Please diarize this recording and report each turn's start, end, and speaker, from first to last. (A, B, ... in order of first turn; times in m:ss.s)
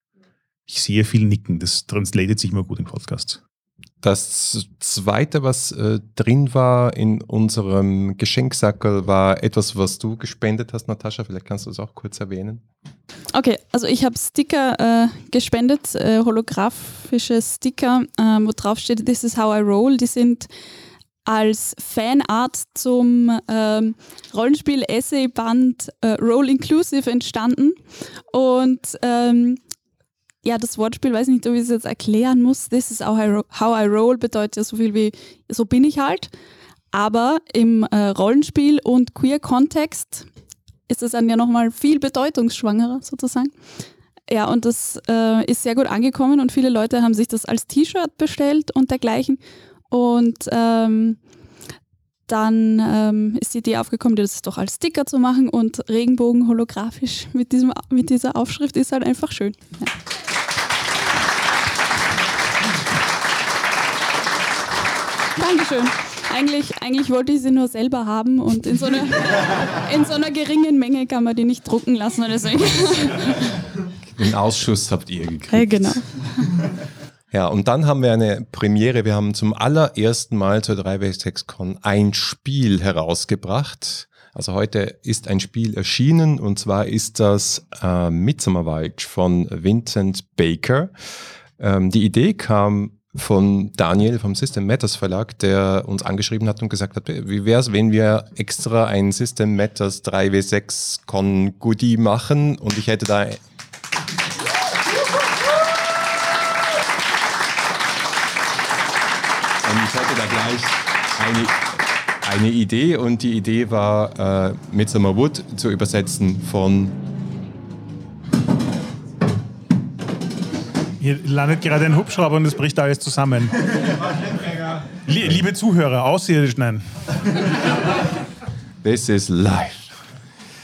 0:00.7-0:03.4 A
0:04.0-0:12.6 B
0:13.3-0:20.5 C
0:21.2-0:27.8 C
0:28.3-0:29.6 C
0:30.4-0:36.3 C
0:36.9-0:40.2 C
0:40.9-0:43.5 C
0:44.3-0:51.2 C
0:52.3-0:59.9 C
1:05.4-1:13.4 C
1:14.1-1:16.0 B
1:15.5-1:16.0 C
1:17.3-1:30.9 B
1:31.6-1:43.4 B
1:49.6-1:57.0 B
2:01.0-2:04.0 A
2:04.9-2:06.8 A
2:08.8-2:09.9 B